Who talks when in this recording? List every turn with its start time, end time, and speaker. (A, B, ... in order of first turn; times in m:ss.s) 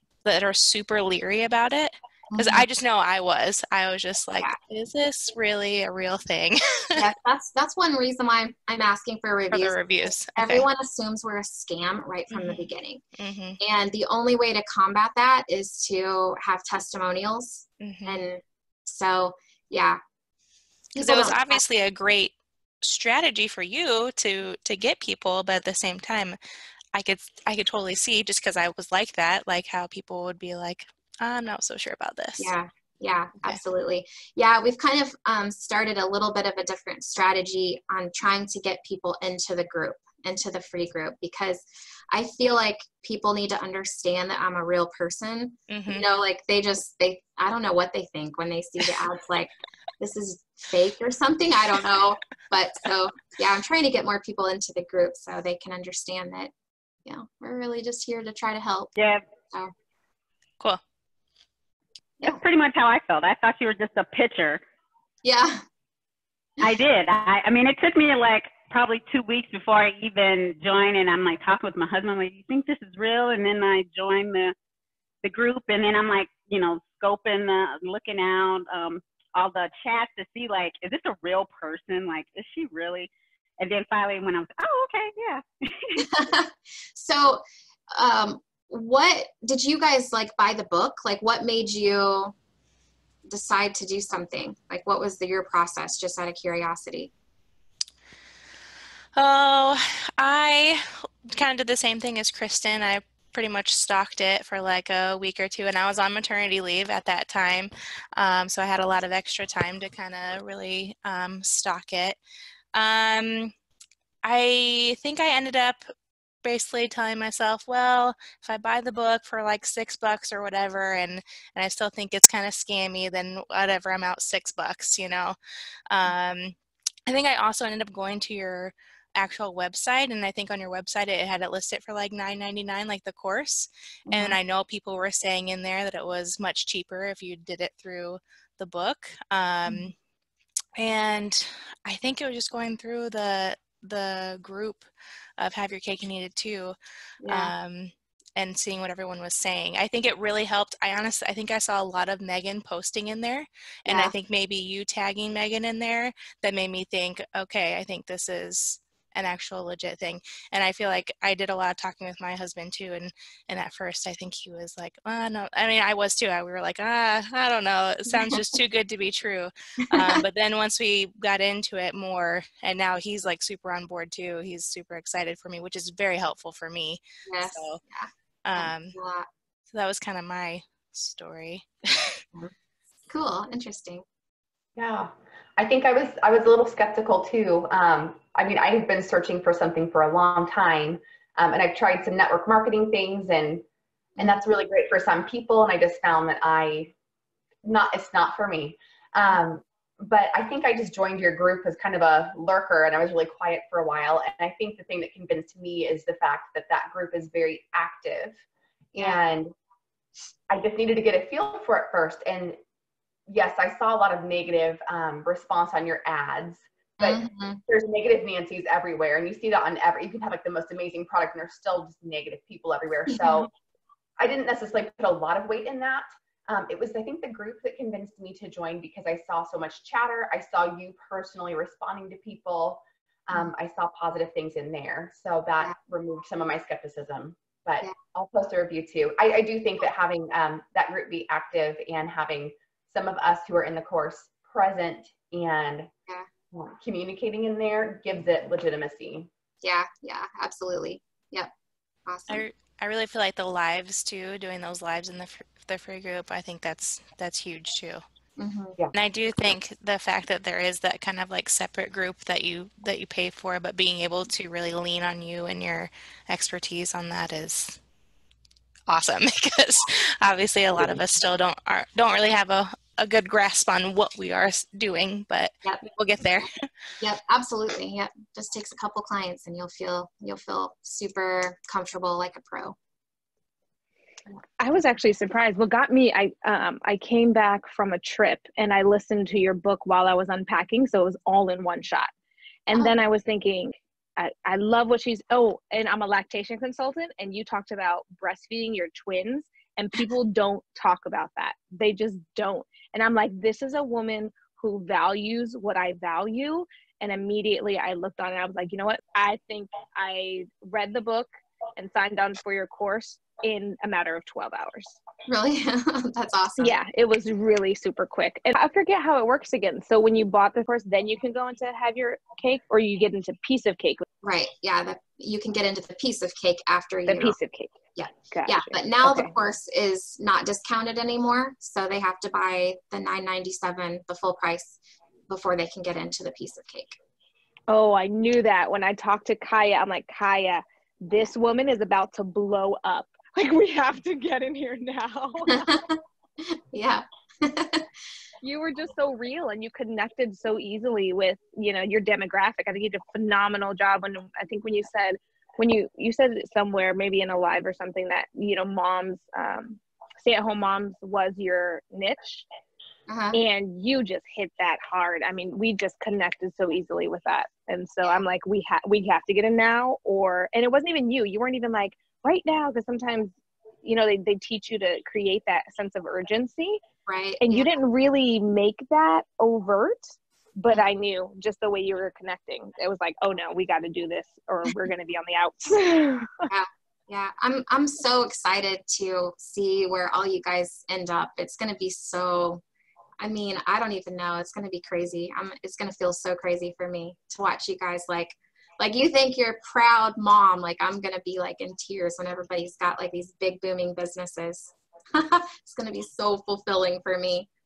0:00.2-0:07.0 A
0:02.3-0:02.6 B
0:07.0-0:13.0 B
0:09.5-0:10.7 A
0:12.3-0:13.6 A
0:13.6-0:20.0 B
0:17.8-0:18.2 A
0:20.9-0:21.6 B
0:21.0-0:26.4 A
0:26.9-0:32.5 A
0:32.4-0:56.5 B
0:45.7-0:46.0 A
0:57.0-0:58.9 B
0:59.0-0:59.2 C
1:02.2-1:04.6 C
1:05.2-1:05.6 B
1:06.6-1:14.5 C
1:15.2-1:26.0 C
1:26.0-1:27.4 B
1:27.9-1:32.3 B
1:33.3-1:37.1 B
1:39.2-1:52.2 A
1:52.7-1:53.5 A
1:54.2-1:55.8 A
1:56.4-2:05.4 A
2:05.9-2:06.5 A
2:07.1-2:19.9 A
2:14.1-2:14.4 B
2:19.6-2:19.9 B
2:20.8-2:26.8 A
2:27.2-2:27.5 B
2:27.3-2:57.8 A
2:33.9-2:34.1 B
2:57.3-2:59.3 B
2:58.4-2:58.9 A
2:59.7-3:02.0 A
3:03.1-3:04.0 B
3:04.8-3:13.6 D
3:14.2-3:14.4 B
3:14.2-3:16.9 D
3:17.6-3:28.4 D
3:28.9-3:29.5 D
3:28.9-3:29.2 B
3:30.5-3:32.6 D
3:33.3-3:43.5 D
3:37.0-3:37.6 B
3:43.1-3:43.4 B
3:44.2-4:05.9 D
4:06.5-4:09.3 D
4:09.6-4:11.5 B
4:12.1-4:12.4 B
4:12.3-4:18.0 A
4:18.4-4:18.8 B
4:18.9-4:27.8 A
4:28.9-4:36.6 A
4:37.0-4:42.8 B
4:44.6-4:52.1 E
4:52.7-5:15.0 E
5:15.3-5:16.8 B
5:16.6-5:24.0 E
5:24.2-5:27.4 B
5:27.1-5:27.7 E
5:27.9-5:34.8 B
5:28.3-5:29.3 E
5:35.3-5:37.0 B
5:37.7-5:45.7 E
5:45.5-5:46.0 B
5:46.5-5:47.9 B
5:48.4-6:02.4 E
6:03.1-6:03.4 B
6:03.3-6:13.3 E
6:13.8-6:16.8 E
6:17.0-6:17.7 B
6:17.4-6:20.0 E
6:20.6-6:26.4 E
6:26.5-6:32.6 B
6:33.2-6:47.5 B